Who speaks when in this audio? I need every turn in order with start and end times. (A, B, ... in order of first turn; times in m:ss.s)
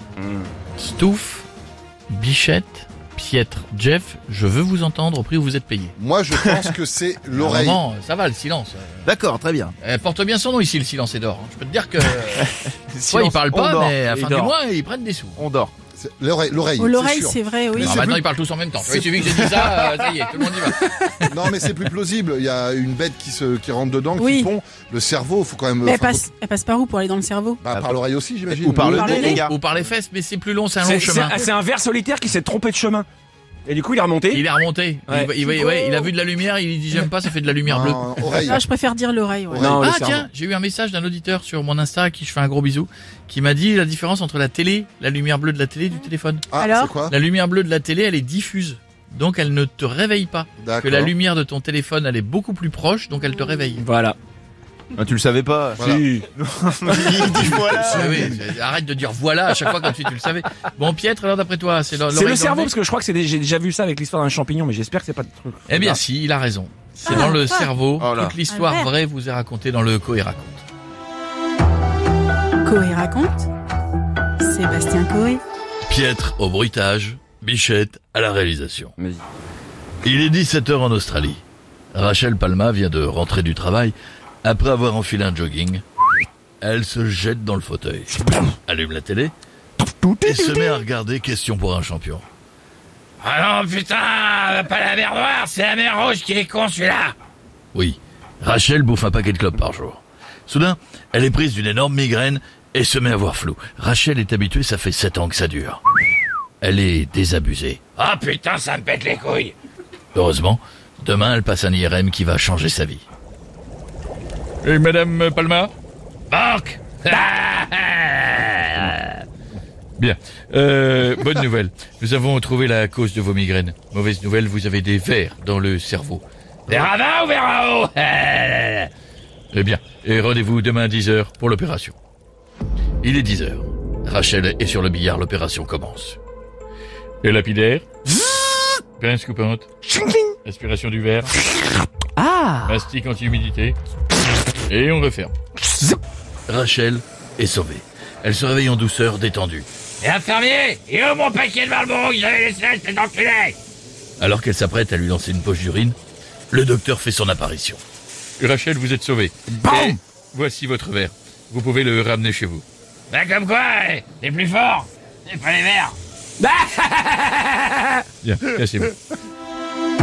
0:00.2-0:00.4 A
0:00.8-0:01.5 B
0:02.1-0:05.9 B
0:06.0-0:07.8 C
0:06.4-0:06.7 A
0:07.3-0:09.0 B
0:09.0-0:09.7 A
0:09.8-0:12.5 B
0:12.3-0:14.6 A
0:13.1-0:15.4 B
0:15.4-0:15.7 A
0:15.9-0:18.2 C
0:16.8-0:18.0 D
0:17.8-0:20.9 B
0:18.9-0:20.0 A
0:21.3-0:26.3 C
0:24.2-0:24.5 D
0:25.8-0:27.6 D
0:27.6-0:29.4 C
0:27.7-0:29.5 A
0:28.8-0:29.4 D
0:29.1-0:31.4 B
0:30.8-0:33.1 E
0:33.6-0:34.4 E
0:34.3-0:38.1 B
0:35.1-0:35.8 E
0:37.6-0:38.6 C
0:38.4-0:39.7 D
0:39.5-0:39.8 C
0:39.6-0:40.3 E
0:39.8-0:46.5 B
0:46.5-0:47.1 C
0:46.6-0:47.0 D
0:47.0-0:53.8 B
0:50.6-0:51.1 C
0:53.8-0:54.2 E
0:55.0-0:58.1 A
0:55.8-0:56.0 C
0:55.8-0:57.1 E
0:57.2-0:58.3 C
0:57.2-1:02.7 B
1:02.1-1:06.0 E
1:05.7-1:10.6 B
1:07.0-1:07.7 D
1:08.0-1:08.4 A
1:08.5-1:08.9 D
1:12.6-1:13.5 D
1:14.4-1:15.4 D
1:15.8-1:18.9 B
1:20.0-1:21.4 B
1:21.9-1:23.9 B
1:24.4-1:25.8 B
1:26.6-1:28.1 B
1:28.7-1:29.3 B
1:30.2-1:32.2 B
1:33.2-1:37.1 F
1:37.7-1:45.8 B
1:46.6-1:47.8 B
1:48.0-1:49.5 F
1:50.1-1:53.0 B
1:54.6-1:55.7 B
1:56.3-1:59.1 F
2:00.0-2:06.9 B
2:06.7-2:08.9 F
2:09.5-2:11.9 B
2:13.0-2:16.2 B
2:17.2-2:17.8 B
2:19.0-2:19.7 B
2:20.4-2:21.3 B
2:22.2-2:22.7 A
2:22.6-2:23.8 B
2:24.7-2:25.3 B
2:26.5-2:29.6 B
2:30.0-2:33.6 F
2:34.2-2:36.0 B
2:36.5-2:37.8 B
2:38.4-2:42.6 B
2:39.6-2:39.9 E
2:43.1-2:47.9 F
2:48.2-2:48.9 B